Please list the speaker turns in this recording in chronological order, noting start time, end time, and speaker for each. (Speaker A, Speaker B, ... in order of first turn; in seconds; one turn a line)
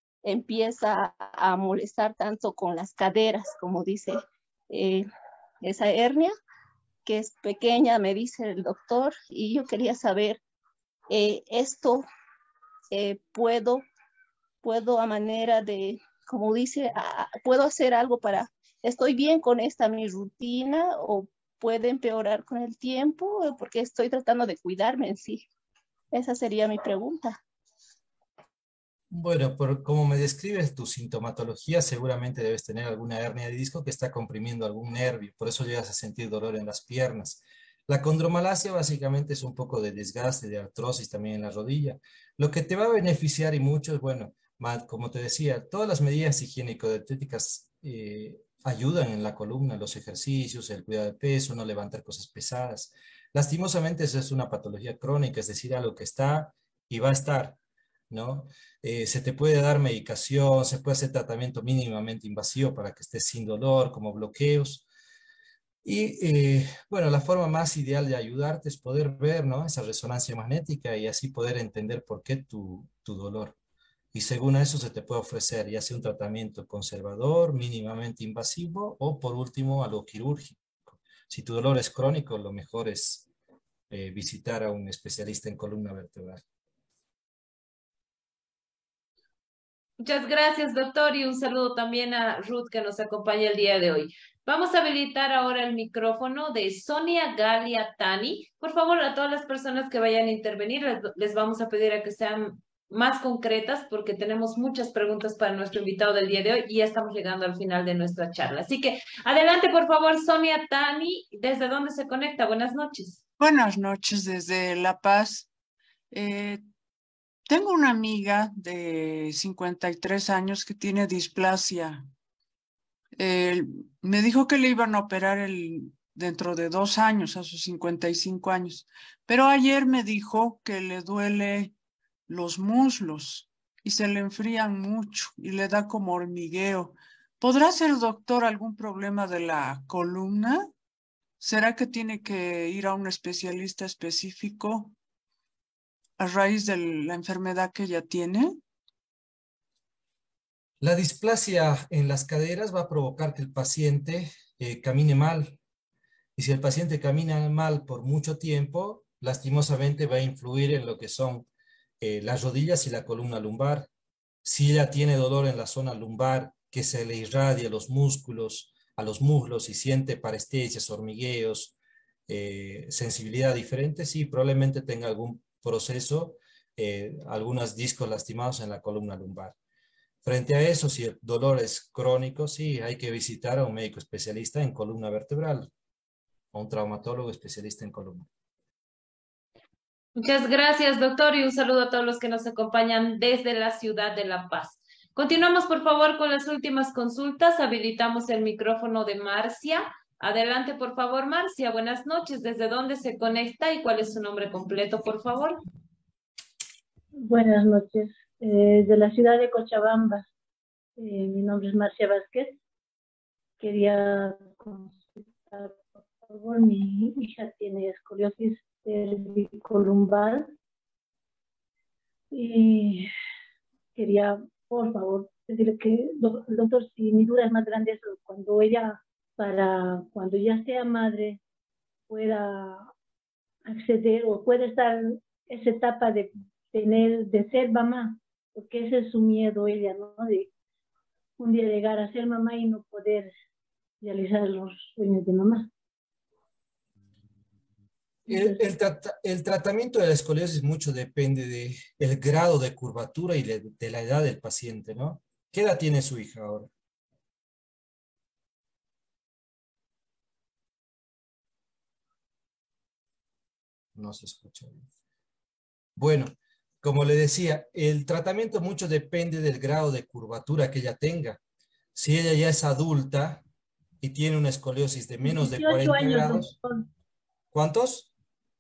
Speaker A: 0.2-4.2
Speaker A: 4.7-5.1
Speaker A: 5.6-6.3
Speaker A: 7.1-10.4
Speaker A: 11.1-12.1
Speaker A: 12.9-13.8
Speaker A: 14.6-25.4
Speaker A: 26.1-27.4
Speaker B: 29.1-57.6
Speaker B: 58.1-64.9
Speaker B: 65.8-73.6
Speaker B: 74.1-83.3
Speaker B: 83.9-86.4
Speaker C: 90.0-113.2
Speaker D: 113.4-115.5
Speaker D: 116.1-116.6
Speaker D: 117.5-122.1
Speaker D: 123.2-131.7
Speaker D: 132.3-140.7
Speaker D: 141.4-144.9
Speaker D: 146.2-148.6
Speaker B: 150.8-155.6
Speaker B: 156.4-161.5
Speaker B: 162.0-163.9
Speaker B: 164.4-171.8
Speaker B: 172.3-179.6
Speaker B: 180.2-185.7
Speaker B: 186.5-188.3
Speaker C: 190.2-205.6
Speaker E: 207.3-210.3
Speaker E: 211.0-212.6
Speaker E: 213.6-220.5
Speaker E: 222.3-223.1
Speaker E: 224.0-231.4
Speaker E: 232.1-232.9
Speaker E: 233.7-240.5
Speaker E: 241.4-243.3
Speaker E: 244.0-245.7
Speaker B: 248.3-256.7
Speaker E: 248.3-248.6
Speaker B: 264.0-264.9
Speaker B: 266.0-271.4
Speaker B: 271.9-273.4
Speaker B: 274.0-276.5
Speaker E: 275.2-276.9
Speaker B: 277.5-278.1